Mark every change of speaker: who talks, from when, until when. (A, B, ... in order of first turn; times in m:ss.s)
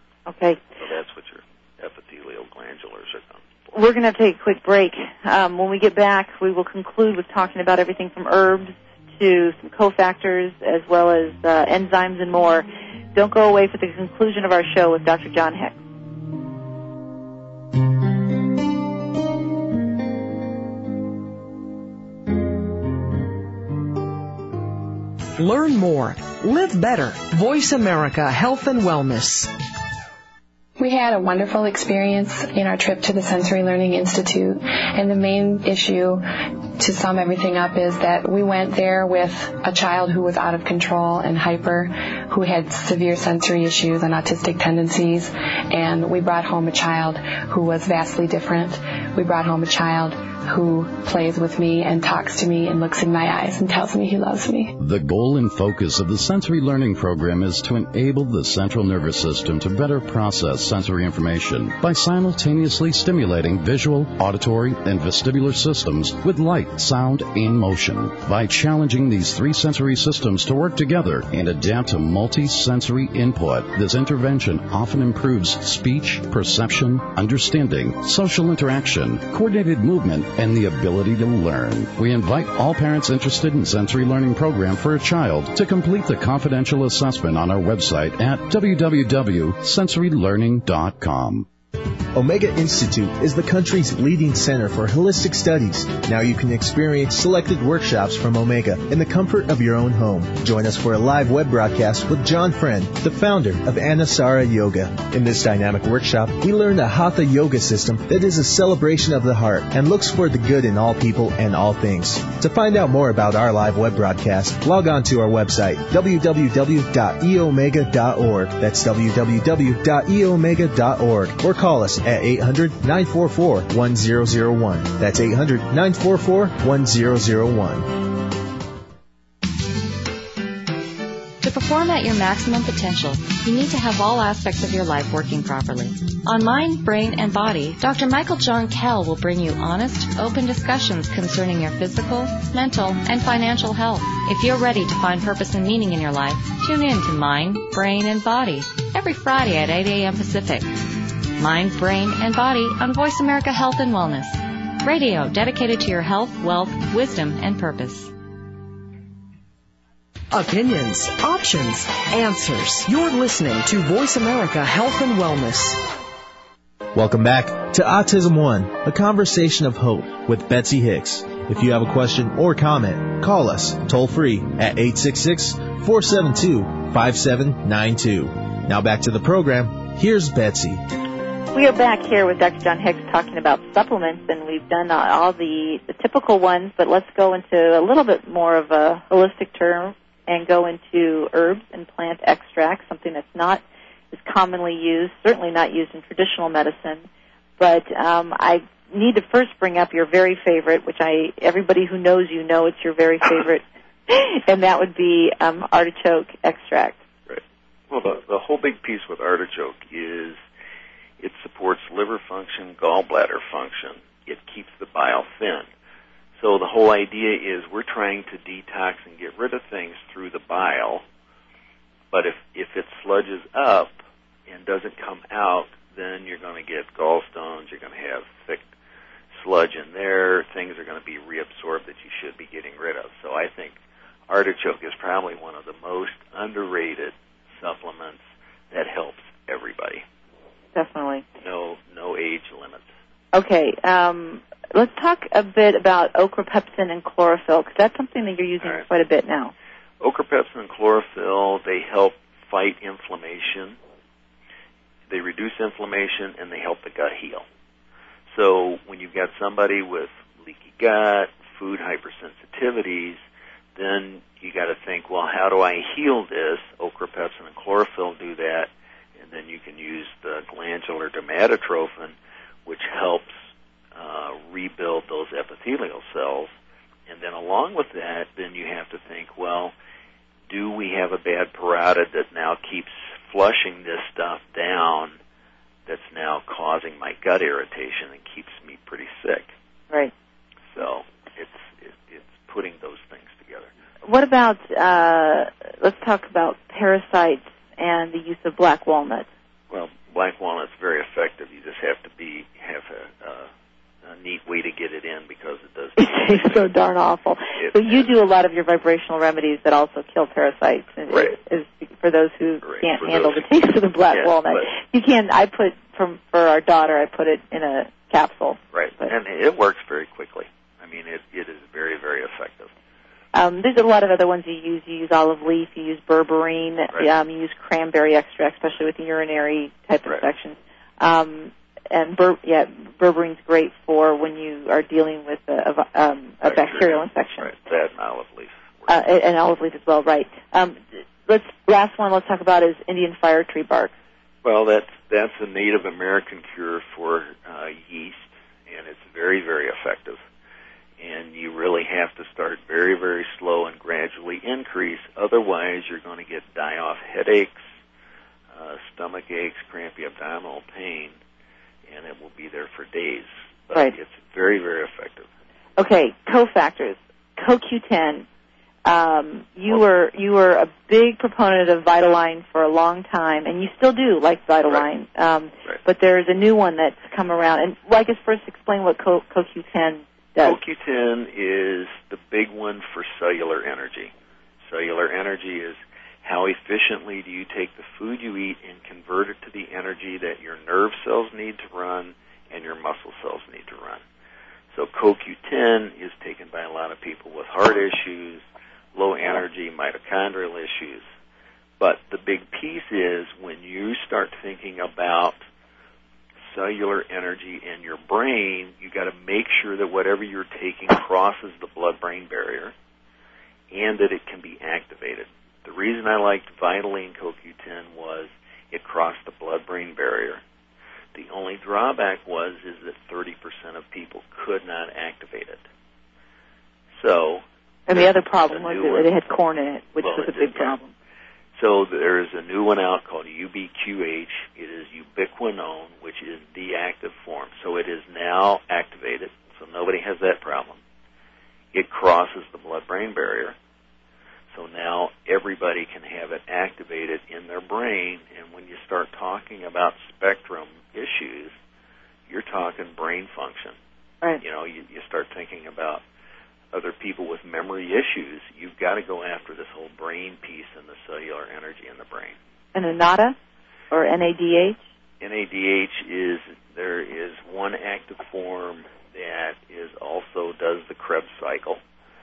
0:00.3-0:00.6 A
0:00.8-0:03.4 B
0:03.7-0:15.8 A
0:25.4-0:29.5 C
0:30.8-0:54.8 D
0:54.8-1:31.5 E
1:32.1-2:08.0 F
2:11.4-2:30.7 G
2:31.4-2:38.1 G
2:40.3-2:45.8 C
2:46.9-3:00.8 F
3:01.5-3:17.1 A
3:17.6-3:27.0 A
3:27.3-3:30.4 B
3:31.2-3:35.7 B
3:36.4-3:41.0 B
3:42.1-3:48.7 B
3:49.3-3:53.8 B
3:54.3-4:00.0 B
4:00.8-4:01.2 A
4:01.4-4:02.9 B
4:03.3-4:09.5 A
4:10.0-4:13.8 B
4:15.1-4:17.4 B
4:18.3-4:23.2 B
4:23.8-4:32.2 B
4:32.7-4:33.3 B
4:33.9-4:36.5 B
4:37.1-4:39.7 B
4:40.5-4:45.2 B
4:45.9-4:49.5 B
4:50.7-4:53.7 B
4:54.0-4:59.3 A
4:59.7-5:03.5 B
5:04.0-5:06.7 B
5:06.0-5:19.1 A
5:07.6-5:08.1 B
5:11.1-5:11.4 B
5:12.6-5:13.5 B
5:14.1-5:14.7 B
5:18.7-5:22.7 B
5:23.3-5:37.5 A
5:36.4-5:38.9 B
5:38.9-5:43.9 A
5:44.4-5:50.2 B
5:51.0-5:57.6 B
5:58.5-6:01.2 B
6:01.9-6:05.3 B
6:05.8-6:08.3 A
6:08.8-6:20.6 A
6:20.4-6:24.1 B
6:24.7-6:34.0 B
6:34.7-6:41.1 B
6:41.8-6:45.4 B
6:46.5-6:52.7 B
6:53.7-7:00.4 B
7:01.1-7:05.6 B
7:06.9-7:09.1 B
7:07.9-7:10.9 A
7:10.0-7:10.8 B
7:11.6-7:20.8 B
7:21.7-7:23.6 B
7:24.5-7:31.6 B
7:32.3-7:33.8 B
7:34.4-7:36.0 B
7:36.7-7:42.4 B
7:42.7-7:43.4 A
7:43.9-7:44.8 A
7:45.2-7:51.8 B